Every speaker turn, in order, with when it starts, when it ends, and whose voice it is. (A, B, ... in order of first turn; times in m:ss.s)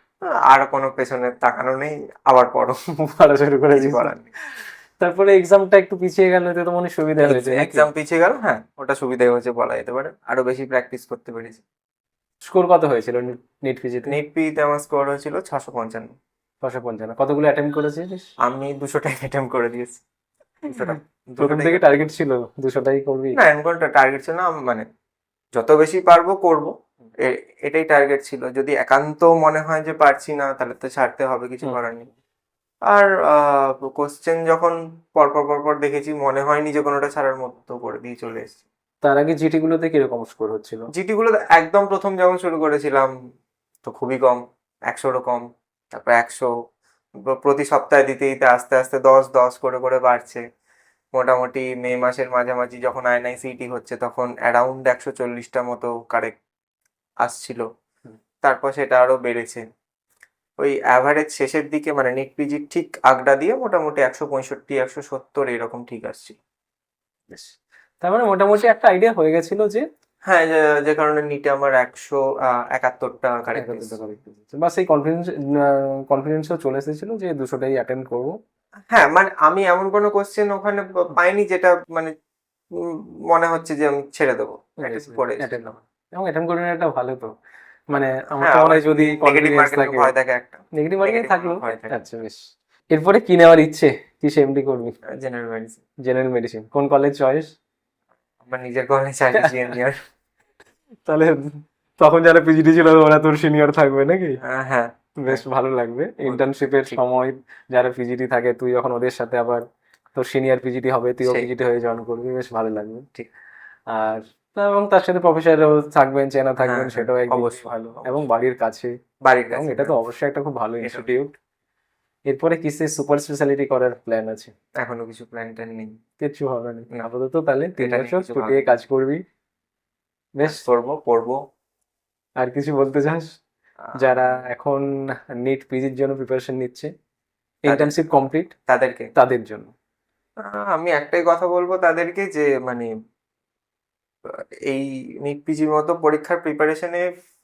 0:00.2-0:02.8 A
0:03.0-0:07.9 B
0:03.7-0:04.3 A
0:07.2-0:11.6 A
0:12.5-0:14.2 B
0:14.0-0:16.1 A
0:16.6-0:18.3 B
0:18.4-0:20.0 A
0:20.6-0:21.9 A
0:21.4-0:23.4 B
0:23.4-0:24.9 A
0:25.5-0:32.1 A
0:32.9-0:38.6 A
0:39.0-0:40.9 B
0:40.9-0:43.1 A
0:43.8-0:46.5 A
0:47.2-0:50.4 A
0:51.1-0:56.4 A
0:57.2-0:57.7 A
0:58.4-0:59.6 A
1:00.6-1:06.4 A
1:07.3-1:09.8 B
1:10.2-1:13.9 A
1:13.5-1:18.4 B
1:18.9-1:22.1 A
1:22.7-1:25.7 A
1:24.8-1:27.3 B
1:27.9-1:30.1 B
1:27.9-1:32.0 A
1:30.7-1:32.4 B
1:32.9-1:34.9 B
1:35.1-1:35.8 A
1:36.0-1:37.5 B
1:38.4-1:40.0 A
1:41.0-1:44.4 B
1:44.4-1:45.4 A
1:45.2-1:53.1 B
1:46.2-1:47.0 A
1:53.9-1:58.9 B
1:56.6-1:58.1 A
1:59.2-1:59.9 A
1:59.5-2:01.4 B
2:00.8-2:01.1 A
2:02.3-2:04.5 B
2:04.8-2:06.0 A
2:06.2-2:09.2 B
2:07.8-2:08.7 A
2:10.4-2:10.6 B
2:10.4-2:11.4 A
2:12.4-2:13.3 B
2:13.8-2:14.4 A
2:14.0-2:16.9 B
2:17.6-2:18.5 B
2:17.7-2:18.0 A
2:18.7-2:19.1 A
2:19.2-2:19.7 B
2:20.4-2:22.9 A
2:24.2-2:27.1 A